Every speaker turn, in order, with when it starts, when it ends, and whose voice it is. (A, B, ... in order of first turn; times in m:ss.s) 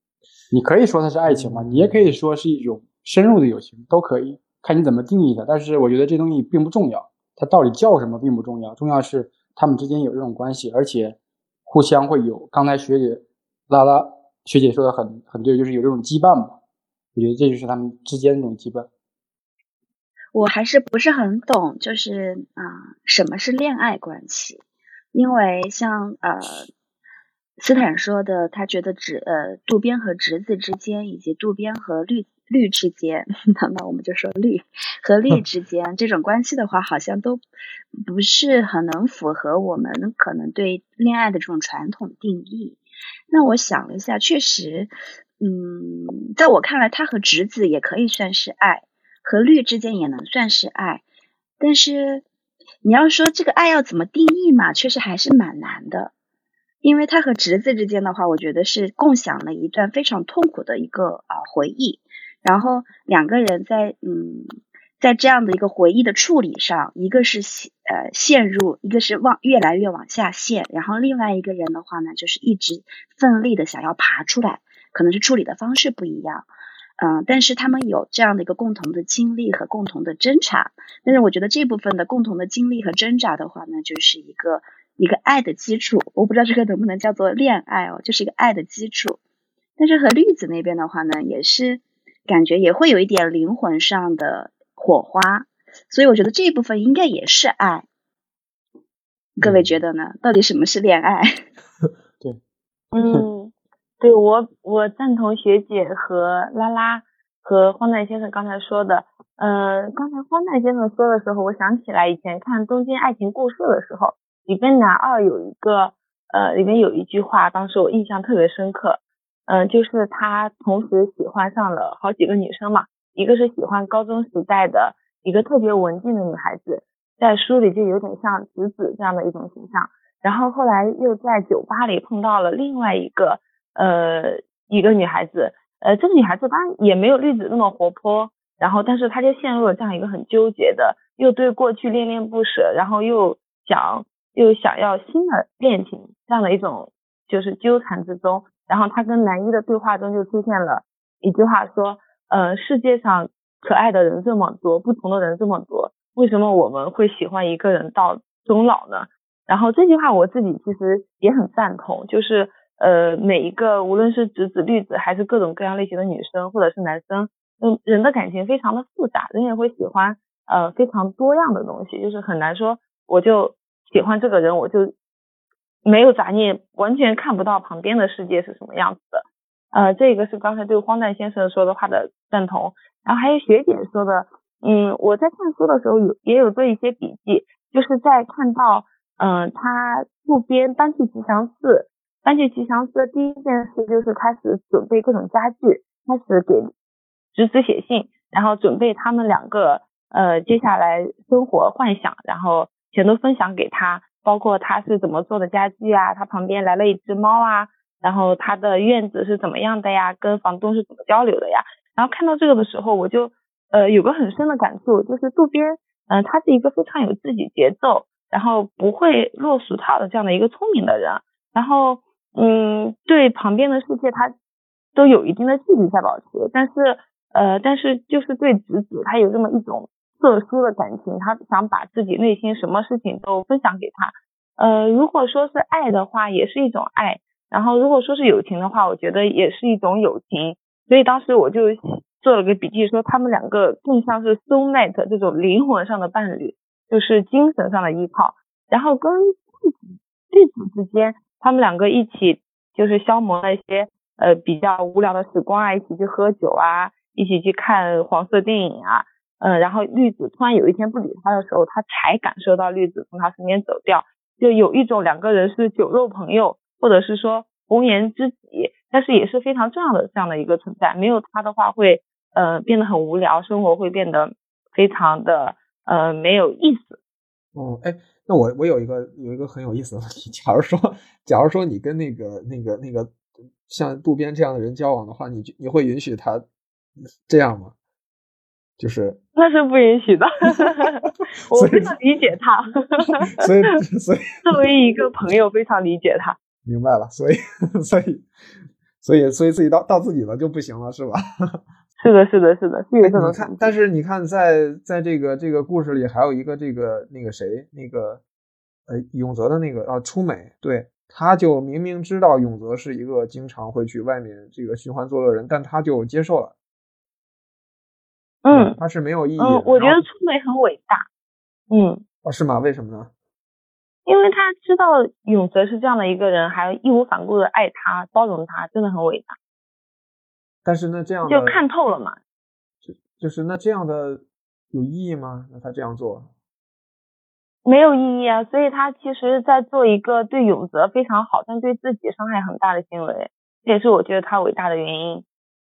0:00.5-0:16.6 A
0:01.3-0:02.1 B
0:17.2-0:18.9 A
0:20.3-0:26.7 C
0:27.6-0:37.4 C
0:38.0-0:51.0 C
0:51.6-0:52.2 C
0:52.8-0:56.1 C
0:56.8-1:04.5 C
1:05.0-1:16.5 C
1:17.0-1:29.2 C
1:29.8-1:37.9 C
1:39.4-1:41.4 C
1:39.4-1:39.8 B
1:42.9-2:54.9 D
2:55.8-3:16.7 D
3:17.3-3:44.3 D
3:45.0-4:09.8 D
4:10.3-4:37.0 D
4:37.6-4:43.2 B
4:43.7-4:46.4 B
4:47.3-4:47.7 B
4:48.8-4:49.2 B
4:49.4-4:53.4 D
4:51.5-4:52.0 B
4:53.4-4:54.5 B
4:54.4-4:56.4 D
4:56.6-4:58.3 B
4:59.0-5:01.6 B
5:02.0-5:03.7 D
5:03.0-5:08.2 B
5:08.9-5:16.5 B
5:18.4-5:18.8 D
5:18.5-5:20.1 B
5:19.4-5:21.1 D
5:21.7-5:22.0 D
5:22.2-5:23.1 B
5:24.1-5:29.4 D
5:30.6-5:31.6 B
5:31.3-5:32.2 D
5:32.8-5:36.3 B
5:37.6-5:45.2 D